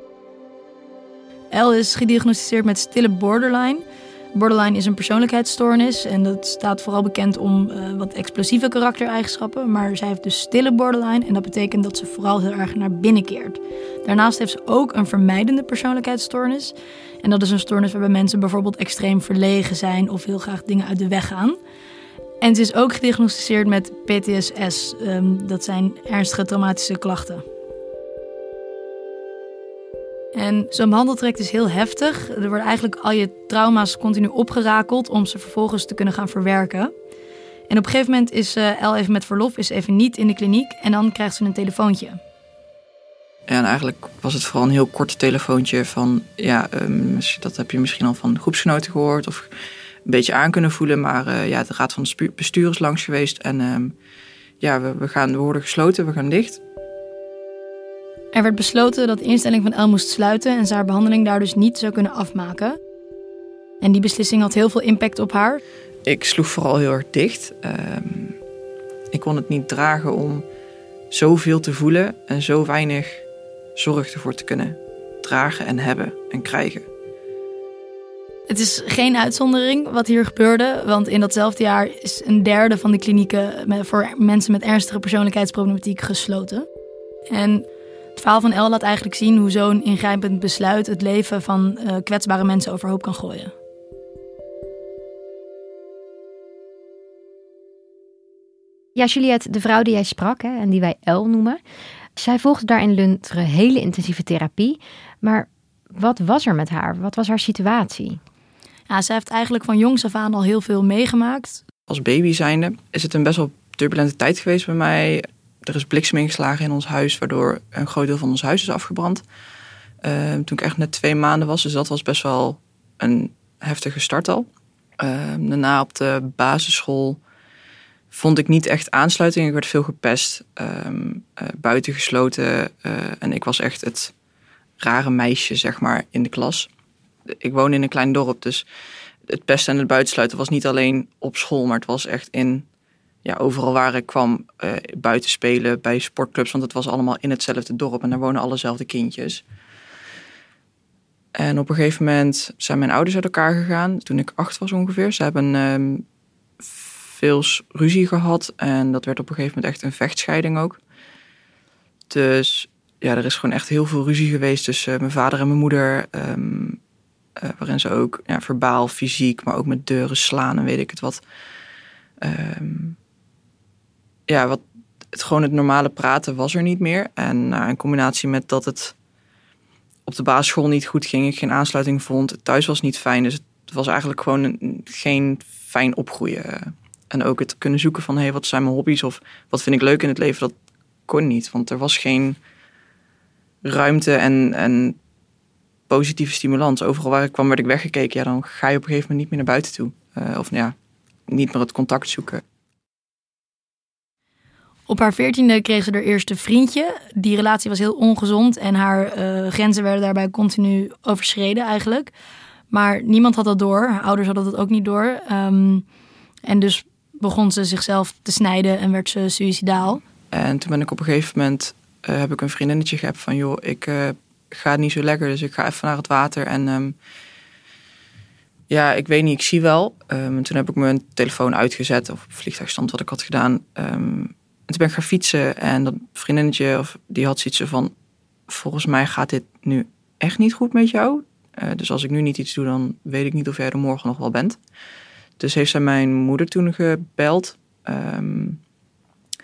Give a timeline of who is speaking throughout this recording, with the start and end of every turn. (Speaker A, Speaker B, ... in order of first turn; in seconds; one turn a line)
Speaker A: 1.5-21.6
Speaker A: 22.4-27.4
Speaker A: 30.3-36.9
Speaker A: 37.7-42.2
Speaker B: 43.5-49.5
Speaker B: 50.1-54.0
Speaker B: 54.6-56.6
Speaker A: 58.3-62.8
Speaker A: 63.8-65.6
Speaker B: 66.1-68.4
Speaker B: 69.1-70.5
Speaker B: 71.1-73.2
Speaker B: 73.8-76.9
Speaker A: 78.5-86.7
Speaker A: 87.3-93.5
Speaker C: 99.0-101.6
Speaker C: 102.2-108.2
Speaker A: 108.9-111.6
Speaker B: 111.9-119.2
Speaker B: 120.0-124.5
Speaker B: 125.0-127.2
Speaker B: 128.1-134.1
Speaker B: 134.8-136.7
Speaker B: 137.4-138.7
Speaker B: 139.3-142.7
Speaker B: 143.2-149.4
Speaker B: 151.4-156.1
Speaker B: 156.7-160.8
Speaker B: 162.1-166.8
Speaker B: 167.4-171.2
Speaker B: 172.2-173.0
Speaker B: 174.3-174.6
Speaker B: 175.1-179.0
Speaker B: 180.1-190.5
Speaker B: 191.1-192.4
Speaker B: 193.7-195.0
Speaker B: 195.9-200.8
Speaker B: 201.3-202.4
Speaker A: 204.9-212.1
Speaker A: 212.7-215.8
Speaker A: 216.4-220.0
Speaker B: 220.3-227.0
Speaker B: 228.7-237.9
Speaker B: 238.5-244.6
Speaker B: 245.4-248.6